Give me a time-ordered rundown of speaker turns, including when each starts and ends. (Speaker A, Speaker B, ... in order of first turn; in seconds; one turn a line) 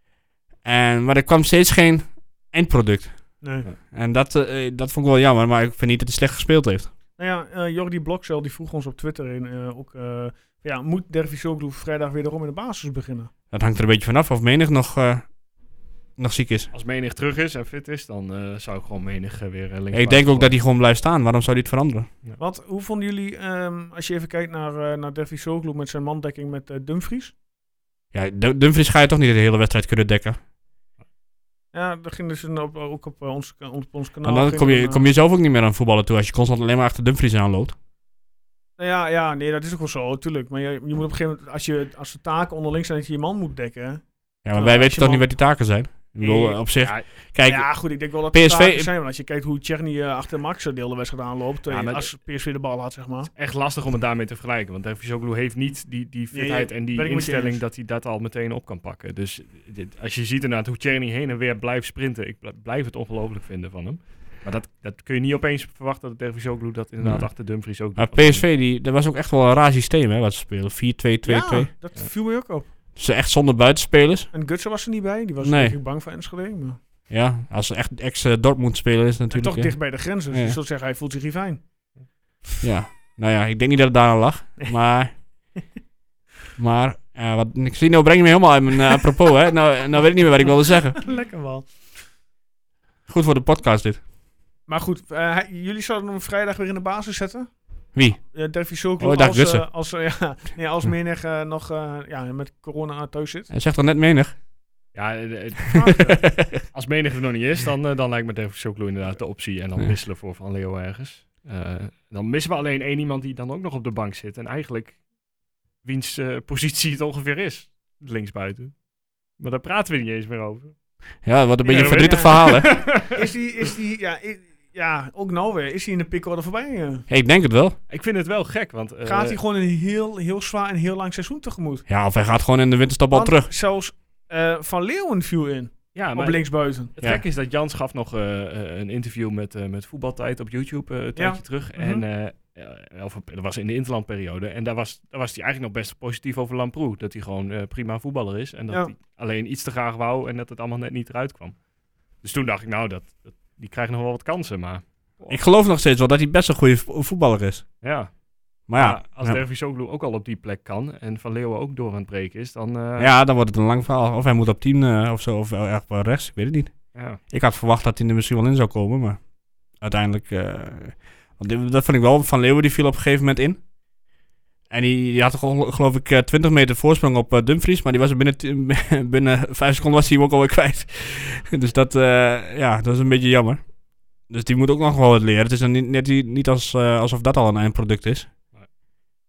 Speaker A: 0.6-6.9
Speaker B: 3.4-3.7
Speaker B: 7.2-13.3
Speaker A: 13.5-15.3
Speaker A: 16.2-16.7
Speaker C: 16.7-20.5
Speaker A: 19.9-22.1
Speaker B: 22.4-27.3
Speaker A: 28.1-30.4
Speaker B: 31.7-35.1
Speaker A: 34.2-37.8
Speaker B: 38.8-45.3
Speaker A: 44.4-48.9
Speaker B: 46.2-46.6
Speaker C: 46.6-47.0
Speaker B: 47.4-53.3
Speaker C: 51.7-52.1
Speaker C: 53.3-68.5
Speaker B: 56.3-57.6
Speaker A: 67.0-67.3
Speaker A: 67.9-71.7
Speaker B: 71.2-72.7
Speaker A: 73.0-74.3
Speaker B: 74.3-76.8
Speaker A: 75.4-75.7
Speaker A: 77.1-80.6
Speaker B: 79.3-81.6
Speaker A: 82.6-85.1
Speaker A: 86.6-91.0
Speaker B: 91.0-91.7
Speaker A: 93.1-94.0
Speaker B: 94.7-97.5
Speaker A: 97.9-98.2
Speaker B: 98.2-103.5
Speaker A: 99.0-99.6
Speaker A: 103.5-104.3
Speaker C: 104.9-115.0
Speaker B: 105.7-106.2
Speaker A: 106.0-106.6
Speaker C: 115.8-118.8
Speaker C: 119.4-120.8
Speaker A: 121.2-122.8
Speaker B: 121.6-127.1
Speaker C: 121.7-123.2
Speaker A: 127.1-127.8
Speaker C: 127.9-129.4
Speaker B: 129.0-131.8
Speaker A: 131.9-133.5
Speaker B: 133.1-136.9
Speaker C: 135.9-151.6
Speaker B: 141.2-142.0
Speaker C: 152.2-155.4
Speaker A: 155.3-157.7
Speaker C: 157.8-158.1
Speaker C: 158.7-163.1
Speaker A: 158.7-159.4
Speaker A: 163.0-169.2
Speaker C: 166.9-167.2
Speaker A: 169.8-173.6
Speaker A: 174.7-183.6
Speaker A: 184.3-188.3